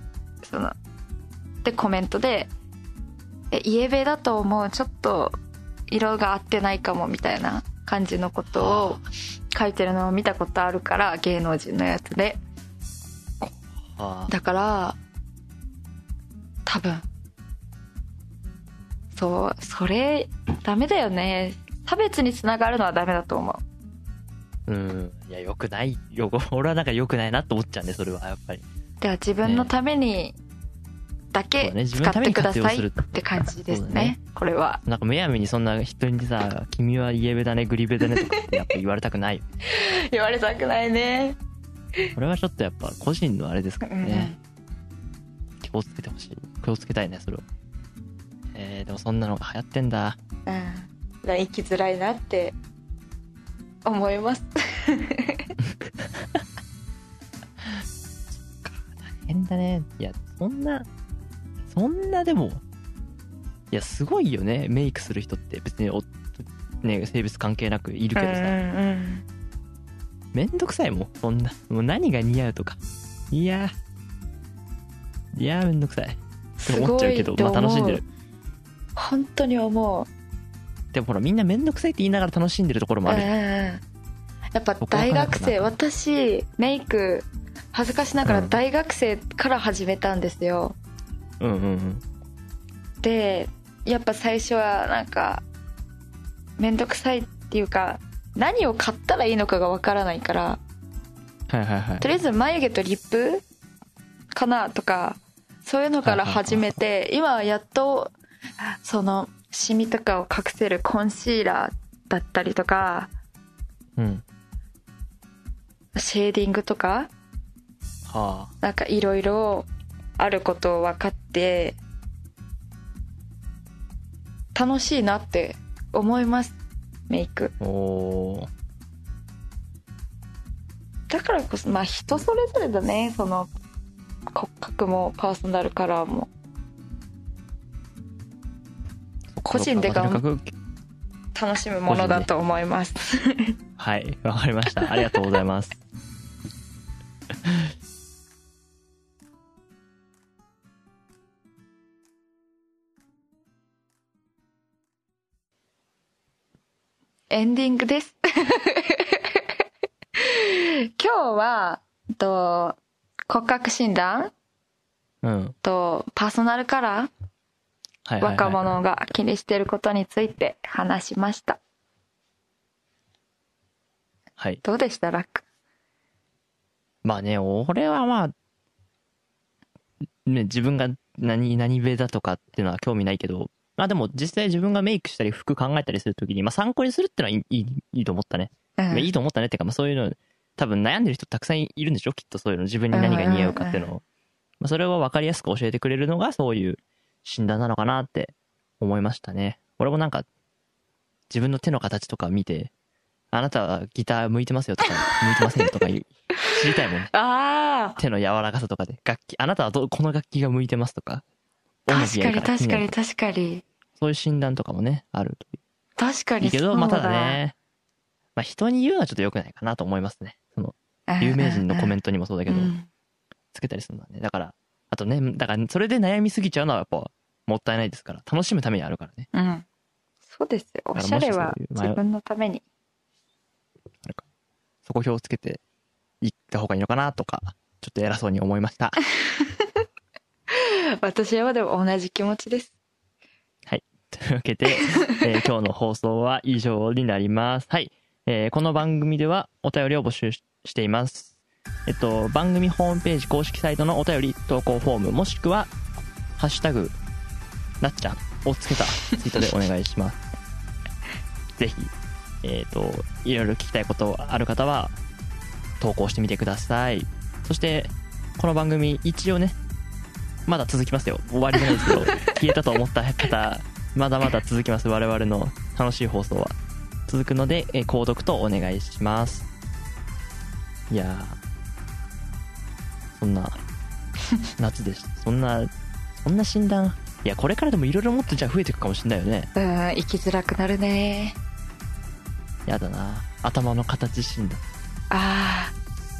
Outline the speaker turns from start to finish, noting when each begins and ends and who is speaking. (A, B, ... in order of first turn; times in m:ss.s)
0:00.4-0:00.8 A
0:01.6-0:02.5 A
0:03.5-0:05.4 A
0:05.9-0:12.4 A
0:08.6-0:09.0 B
0:13.9-0:14.3 B
0:14.3-0:15.0 A
0:16.7-0:17.0 A
0:19.1-0:23.6 A
0:24.7-0:28.6 B
0:29.0-0:30.4 A
0:29.4-0:29.7 B
0:31.3-0:34.8 A
0:31.6-0:34.2 B
0:34.8-0:39.4 B
0:39.7-0:41.4 A
0:42.2-0:44.3 B
0:43.8-0:44.4 A
0:45.6-0:47.4 B
0:48.5-0:50.2 B
0:50.5-0:52.6 A
0:53.8-0:55.5 A
0:56.0-0:56.4 B
0:57.6-1:00.9 B
1:01.7-1:02.6 B
1:03.7-1:08.6 B
1:08.2-1:09.2 A
1:10.3-1:12.8 B
1:13.3-1:13.8 B
1:15.3-1:18.0 B
1:16.6-1:18.0 A
1:19.0-1:20.1 A
1:20.9-1:23.3 B
1:23.1-1:23.8 A
1:24.5-1:30.8 A
1:24.8-1:25.7 B
1:28.2-1:28.6 B
1:31.4-1:32.0 B
1:33.0-1:35.4 A
1:36.6-1:40.6 A
1:41.5-1:42.1 B
1:42.0-1:43.4 A
1:44.3-1:48.1 A
1:46.0-1:46.7 B
1:48.6-1:53.1 A
1:54.0-1:54.2 B
1:56.0-1:57.1 A
1:58.1-1:58.5 B
1:58.6-1:59.7 A
2:00.2-2:01.8 A
2:04.6-2:06.6 A
2:07.1-2:07.6 A
2:07.6-2:08.5 B
2:11.1-2:13.5 A
2:14.3-2:16.3 A
2:19.4-2:20.6 B
2:19.5-2:20.2 A
2:21.4-2:23.6 A
2:21.9-2:22.3 B
2:23.8-2:25.8 B
2:27.4-2:27.7 B
2:37.3-2:39.5 A
2:40.2-2:42.8 A
2:43.3-2:44.3 A
2:45.2-2:45.6 B
2:45.6-2:47.1 A
2:48.1-2:48.8 B
2:48.2-2:51.6 A
2:54.6-2:55.4 A
2:57.0-2:58.3 B
3:00.2-3:14.0 B
3:08.8-3:09.1 A
3:12.9-3:13.9 A
3:14.6-3:20.3 B
3:21.3-3:22.7 B
3:23.3-3:27.1 B
3:25.0-3:25.6 A
3:27.1-3:28.0 A
3:28.0-3:31.2 B
3:31.9-3:32.9 B
3:31.9-3:33.6 A
3:34.0-3:35.6 B
3:36.0-3:37.4 A
3:36.4-3:37.6 B
3:38.4-3:42.7 B
3:41.1-3:41.9 A
3:42.5-3:42.9 A
3:43.5-3:49.3 B
3:49.3-3:49.6 A
3:50.3-3:52.6 A
3:51.0-3:52.0 B
3:54.8-3:55.6 B
3:56.2-3:59.0 B
3:59.2-3:59.7 A
4:00.5-4:02.7 A
4:03.7-4:11.3 B
4:04.8-4:05.2 A
4:11.9-4:15.7 B
4:16.4-4:17.0 B
4:17.8-4:20.2 B
4:21.6-4:21.9 B
4:22.4-4:25.0 B
4:25.8-4:29.6 B
4:30.5-4:36.5 B
4:31.8-4:32.4 A
4:37.1-4:39.5 B
4:40.9-4:41.4 B
4:43.1-4:43.6 B
4:44.6-4:49.5 B
4:49.6-4:51.4 A
4:52.7-4:54.6 B
4:55.1-4:55.7 A